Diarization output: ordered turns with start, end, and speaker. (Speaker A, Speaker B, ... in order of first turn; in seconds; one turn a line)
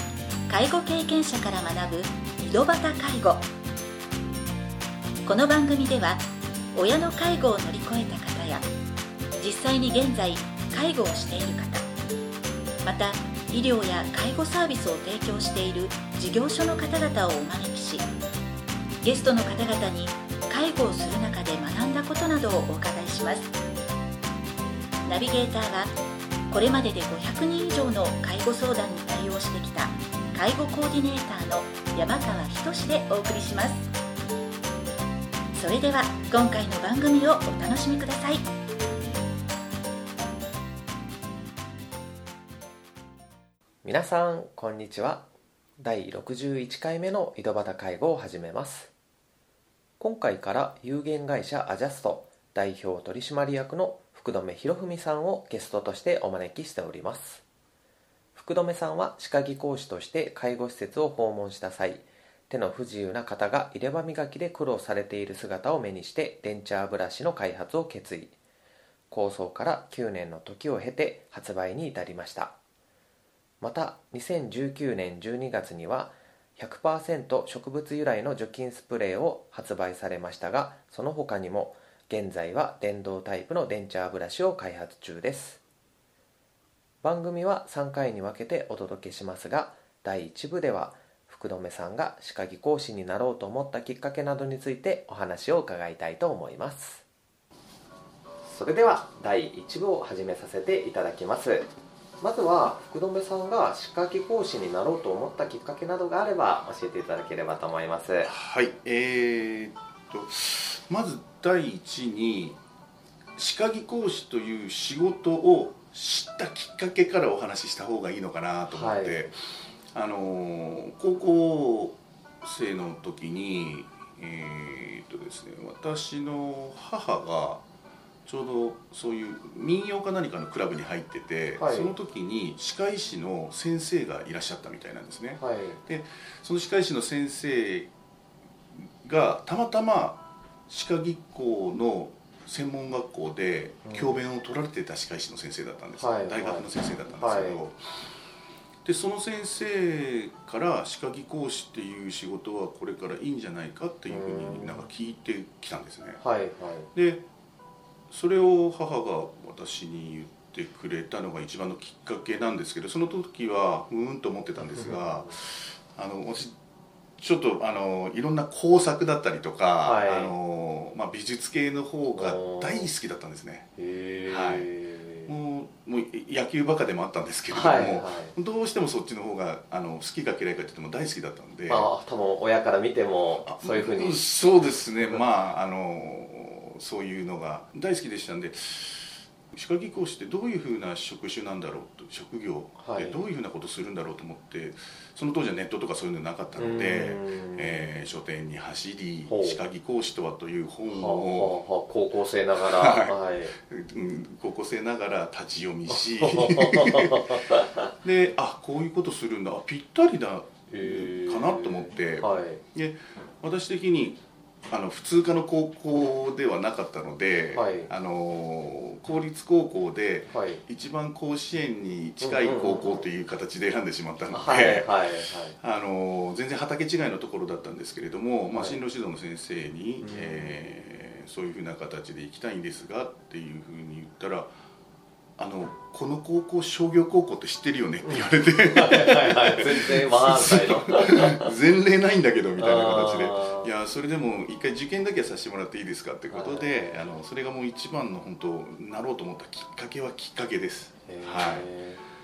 Speaker A: 0.5-3.5
Speaker A: 5.2-8.7
Speaker A: 9.4-11.8
Speaker A: 12.8-18.1
Speaker A: 19.0-23.5
Speaker A: 25.0-25.9
Speaker A: 26.5-33.9
Speaker A: 35.5-38.4
Speaker B: 43.8-45.2
Speaker B: 45.8-48.9
Speaker B: 50.0-57.4
Speaker B: 58.3-68.3
Speaker B: 69.1-72.5
Speaker B: 73.6-85.6
Speaker B: 87.0-97.0
Speaker B: 98.5-101.7
Speaker B: 102.2-108.3
Speaker C: 108.2-112.6
Speaker C: 113.3-119.3
Speaker B: 118.7-119.3
Speaker C: 119.9-127.6
Speaker C: 128.2-137.9
Speaker B: 131.6-131.9
Speaker B: 135.4-135.8
Speaker C: 138.7-147.8
Speaker B: 143.8-144.2
Speaker B: 146.0-147.6
Speaker C: 148.8-156.2
Speaker B: 154.1-154.8
Speaker B: 156.2-156.9
Speaker C: 156.9-157.2
Speaker C: 158.1-166.6
Speaker B: 164.7-165.3
Speaker C: 167.2-173.7
Speaker B: 169.8-170.3
Speaker B: 172.1-172.9
Speaker B: 173.8-175.3
Speaker C: 174.3-174.7
Speaker C: 175.3-181.9
Speaker B: 177.5-178.3
Speaker B: 181.7-184.3
Speaker C: 183.4-201.6
Speaker B: 192.8-193.2
Speaker B: 196.6-197.8
Speaker B: 199.3-199.6
Speaker B: 200.9-203.5
Speaker C: 202.6-207.4
Speaker B: 205.9-207.9
Speaker C: 208.0-224.9
Speaker B: 210.7-212.6
Speaker B: 217.5-217.9
Speaker B: 220.3-220.6
Speaker B: 222.2-223.1
Speaker B: 224.3-225.6
Speaker C: 225.6-234.5
Speaker B: 228.5-228.8
Speaker B: 230.0-230.5
Speaker C: 235.4-251.7
Speaker B: 238.0-241.5
Speaker B: 242.6-243.7
Speaker B: 246.3-247.0
Speaker B: 251.1-252.0